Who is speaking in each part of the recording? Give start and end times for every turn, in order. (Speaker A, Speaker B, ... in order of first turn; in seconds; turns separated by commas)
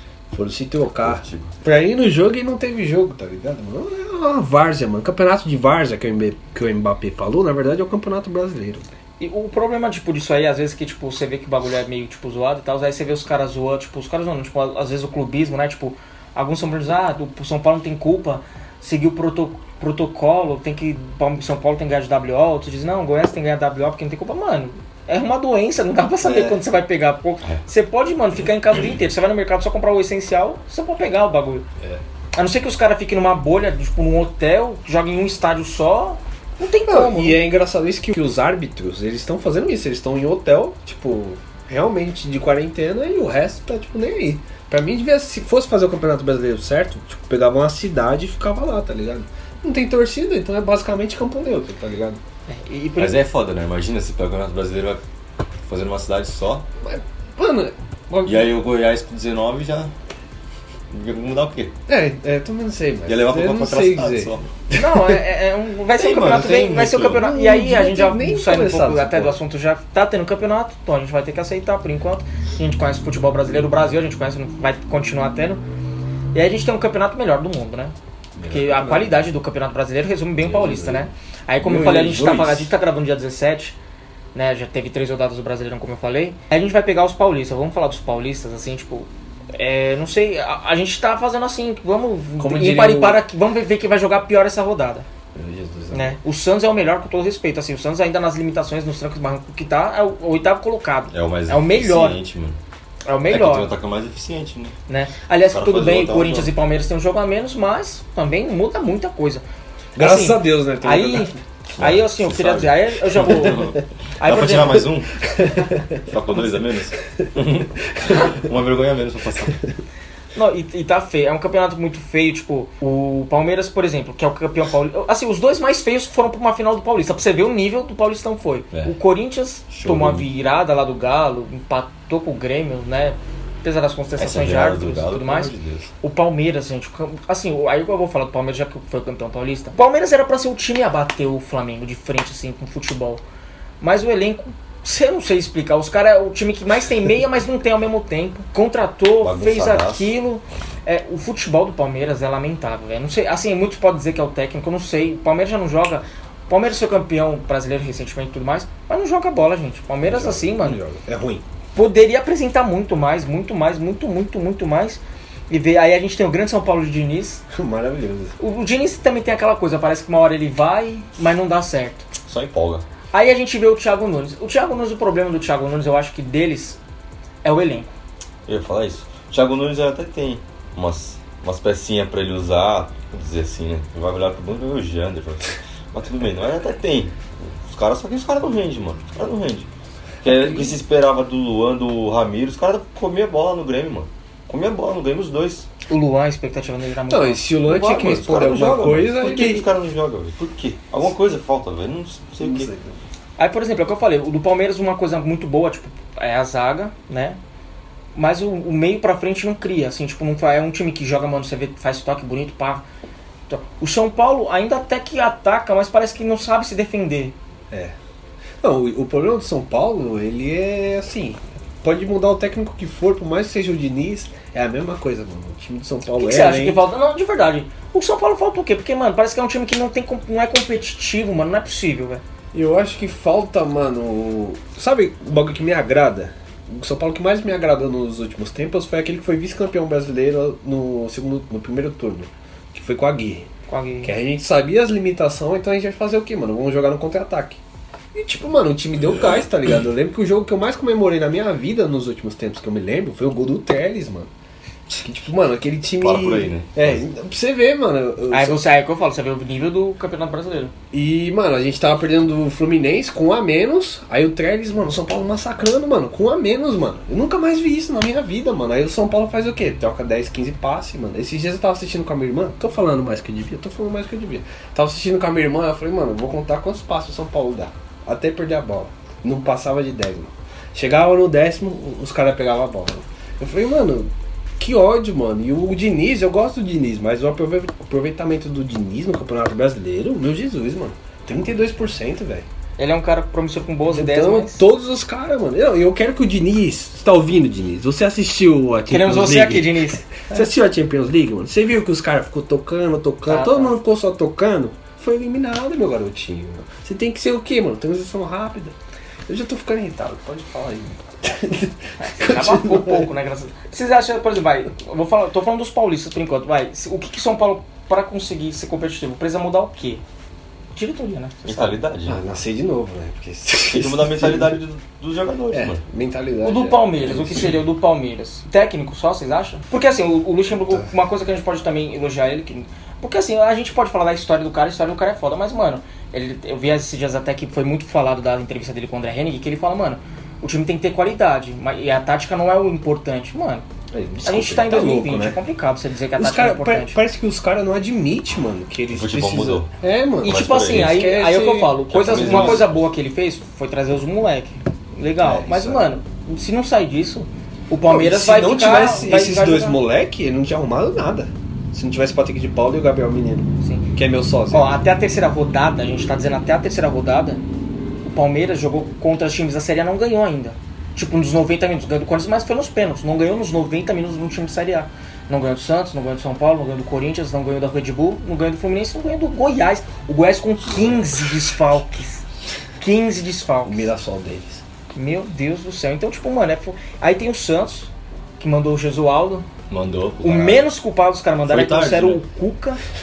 Speaker A: 0.3-8.9, Speaker B: 1.0-1.5, Speaker C: 9.2-31.6, Speaker A: 26.2-26.6, Speaker C: 32.3-37.4, Speaker A: 36.9-52.2, Speaker C: 52.5-53.2, Speaker B: 53.0-55.0, Speaker B: 55.6-56.7, Speaker A: 56.8-58.5, Speaker B: 58.2-59.9, Speaker B: 60.9-61.7, Speaker A: 61.9-65.1, Speaker B: 63.1-64.5, Speaker C: 64.7-75.6, Speaker B: 65.9-67.2, Speaker A: 67.1-69.4, Speaker C: 76.3-77.9, Speaker A: 78.3-79.2, Speaker C: 78.5-83.8, Speaker B: 80.5-81.0, Speaker A: 81.6-82.7, Speaker C: 84.3-95.1, Speaker A: 92.4-93.2, Speaker A: 95.3-96.2, Speaker C: 95.9-102.2, Speaker B: 101.1-102.6, Speaker C: 103.0-103.7, Speaker B: 103.3-104.8, Speaker C: 104.9-109.4, Speaker B: 105.5-106.5, Speaker A: 110.0-111.4, Speaker C: 110.0-114.9, Speaker B: 111.8-115.2, Speaker A: 115.2-116.0, Speaker B: 116.0-119.6, Speaker C: 120.3-143.2, Speaker B: 129.7-130.3, Speaker B: 134.2-135.9, Speaker C: 143.8-160.8, Speaker B: 149.2-150.1, Speaker A: 160.0-161.4, Speaker C: 161.7-167.4, Speaker A: 167.5-168.3, Speaker C: 168.4-172.1, Speaker B: 172.2-172.8, Speaker C: 173.1-176.8, Speaker C: 177.4-177.9, Speaker B: 178.4-189.7, Speaker B: 190.2-195.7, Speaker A: 190.2-190.7, Speaker C: 195.9-197.4, Speaker A: 197.1-199.7, Speaker B: 197.6-202.7, Speaker A: 202.4-203.0, Speaker C: 203.4-207.4, Speaker C: 208.1-212.8, Speaker C: 213.5-217.3, Speaker A: 218.6-226.8, Speaker C: 226.2-232.2, Speaker A: 232.5-243.5, Speaker C: 243.7-244.1, Speaker A: 244.0-247.6, Speaker A: 248.1-254.3, Speaker A: 254.9-258.6, Speaker B: 256.0-257.0, Speaker C: 258.3-260.7, Speaker A: 260.9-292.4, Speaker C: 292.8-294.6, Speaker A: 293.9-308.7, Speaker C: 298.9-300.3, Speaker C: 303.3-303.8, Speaker A: 309.3-313.1, Speaker C: 312.0-320.0, Speaker C: 320.7-321.8, Speaker B: 321.4-322.2, Speaker A: 322.1-324.6, Speaker B: 323.7-325.8, Speaker A: 325.5-327.5, Speaker C: 326.4-343.6, Speaker A: 343.9-345.4, Speaker C: 344.2-347.0, Speaker A: 346.1-352.7, Speaker B: 348.9-349.7, Speaker B: 350.2-351.0, Speaker C: 350.2-359.8, Speaker B: 351.9-352.8, Speaker A: 355.2-355.9, Speaker A: 357.8-364.8, Speaker C: 364.5-367.4, Speaker C: 368.0-382.2, Speaker A: 380.7-381.0, Speaker C: 382.8-383.9, Speaker A: 383.6-384.6, Speaker C: 384.9-389.5, Speaker B: 389.7-390.6, Speaker C: 390.2-392.8, Speaker B: 391.4-392.2